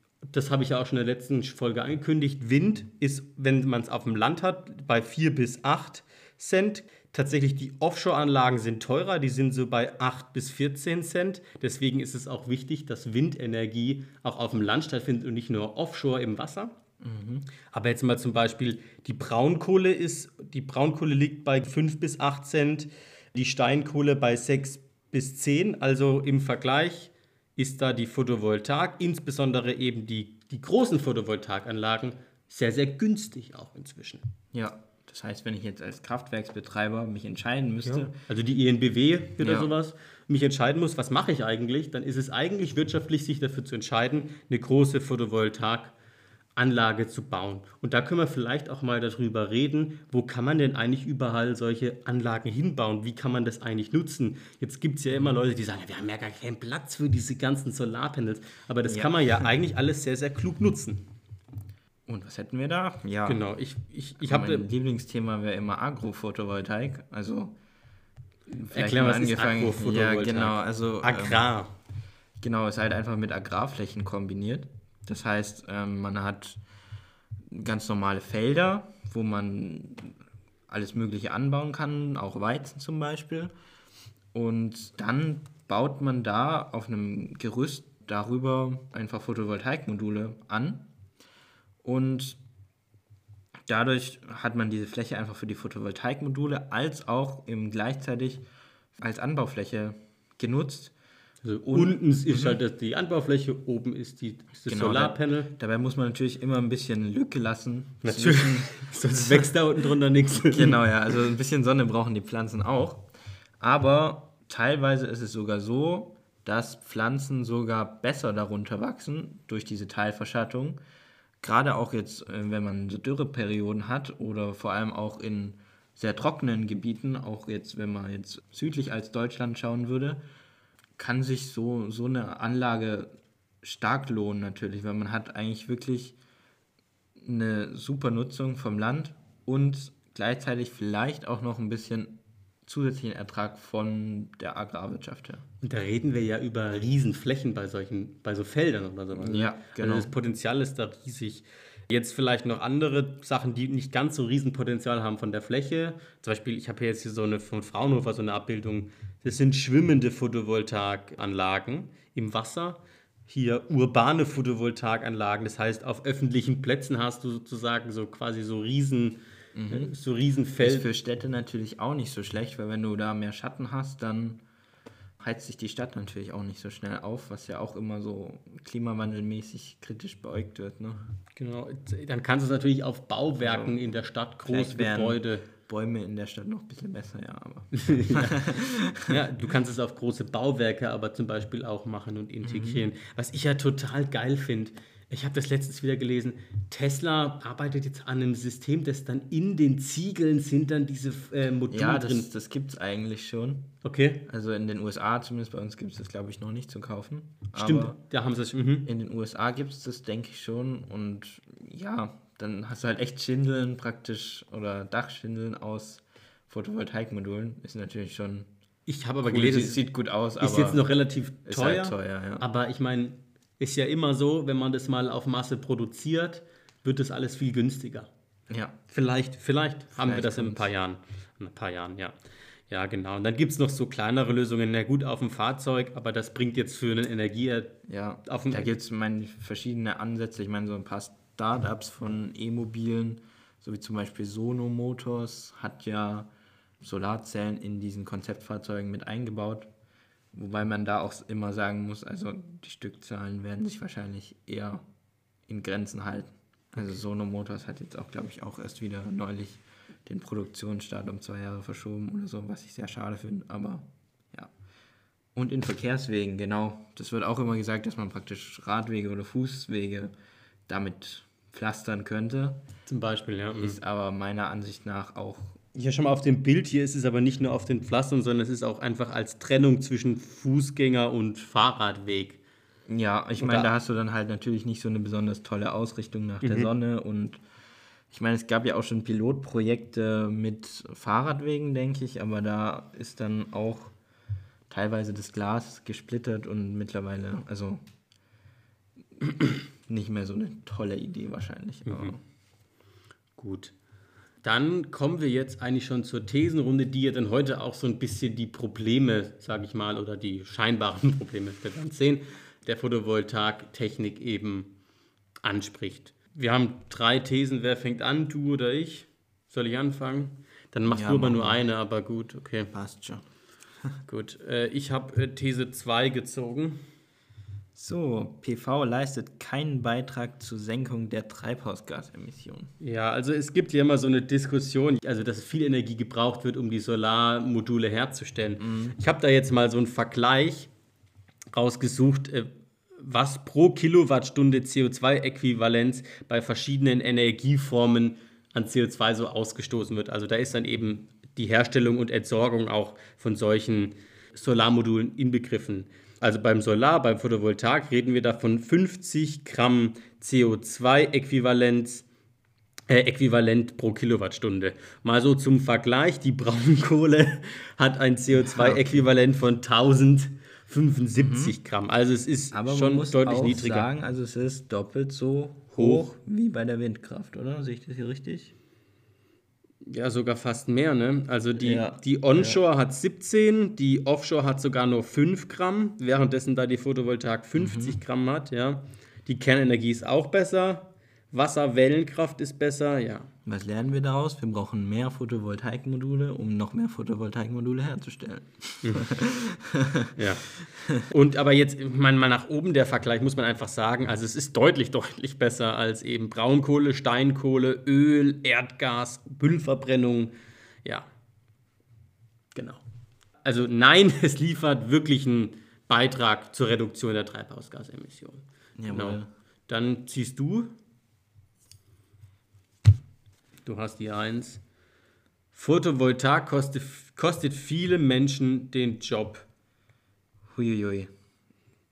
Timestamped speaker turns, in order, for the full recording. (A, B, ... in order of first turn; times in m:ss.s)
0:00.3-0:16.8 A
0:17.0-0:17.5 B
0:17.7-0:34.3 A
0:34.5-0:38.1 B
0:37.8-0:45.9 A
0:39.4-0:39.7 B
0:46.6-1:01.1 A
0:58.8-0:59.5 B
1:02.1-1:03.4 B
1:03.3-1:04.7 A
1:04.2-1:07.6 B
1:08.6-1:11.5 B
1:08.6-1:11.7 A
1:12.4-1:16.6 B
1:17.5-1:20.2 B
1:20.7-1:23.5 B
1:24.3-1:30.9 B
1:31.8-1:32.4 B
1:33.7-1:40.9 B
1:41.4-1:45.5 A
1:41.6-1:42.6 B
1:44.7-1:49.5 B
1:48.0-1:50.8 A
1:50.4-1:53.1 B
1:53.6-2:00.8 B
2:01.4-2:10.2 B
2:11.0-2:16.2 B
2:17.2-2:25.4 B
2:25.6-2:50.9 A
2:29.1-2:30.1 B
2:49.6-2:49.9 B
2:50.6-2:54.4 B
2:55.2-3:01.1 B
3:01.4-3:05.4 A
3:03.4-3:03.8 B
3:04.4-3:09.2 B
3:07.8-3:08.4 A
3:09.1-3:22.3 A
3:12.4-3:12.9 B
3:21.7-3:23.7 B
3:23.8-3:24.2 A
3:24.2-3:28.0 B
3:27.5-3:28.9 A
3:28.8-3:38.5 B
3:38.9-3:39.9 A
3:39.2-3:40.8 B
3:40.4-3:48.1 A
3:41.4-3:42.4 B
3:48.5-3:48.8 B
3:48.9-3:52.2 A
3:50.0-3:50.7 B
3:52.7-3:58.7 A
3:57.9-4:06.3 B
4:06.8-4:09.7 B
4:10.3-4:14.8 B
4:15.5-4:24.5 B
4:25.4-4:30.1 B
4:30.7-4:32.6 B
4:32.9-4:33.8 A
4:33.6-4:35.6 B
4:35.7-4:42.4 A
4:42.9-4:47.4 B
4:43.4-4:43.7 A
4:46.4-4:46.7 A
4:48.1-4:54.0 B
4:54.7-4:57.8 B
4:59.2-5:02.2 B
5:01.9-5:02.1 A
5:03.4-5:03.7 A
5:04.4-5:14.7 A
5:15.4-5:22.7 A
5:20.9-5:21.6 B
5:22.7-5:23.3 B
5:24.1-5:26.8 A
5:27.8-5:32.7 B
5:32.8-5:40.7 A
5:38.6-5:39.0 B
5:41.5-6:02.1 A
6:02.9-6:13.9 A
6:08.3-6:09.0 B
6:11.2-6:11.6 B
6:12.5-6:18.6 B
6:15.8-6:16.1 A
6:19.8-6:33.3 A
6:21.6-6:22.6 B
6:27.6-6:28.0 B
6:33.5-6:40.2 B
6:38.8-6:39.1 A
6:40.2-6:51.1 A
6:40.7-6:41.0 B
6:52.5-6:52.8 A
6:53.4-7:00.7 A
6:58.8-6:59.3 B
7:03.6-7:04.6 A
7:05.5-7:09.5 A
7:10.5-7:11.1 B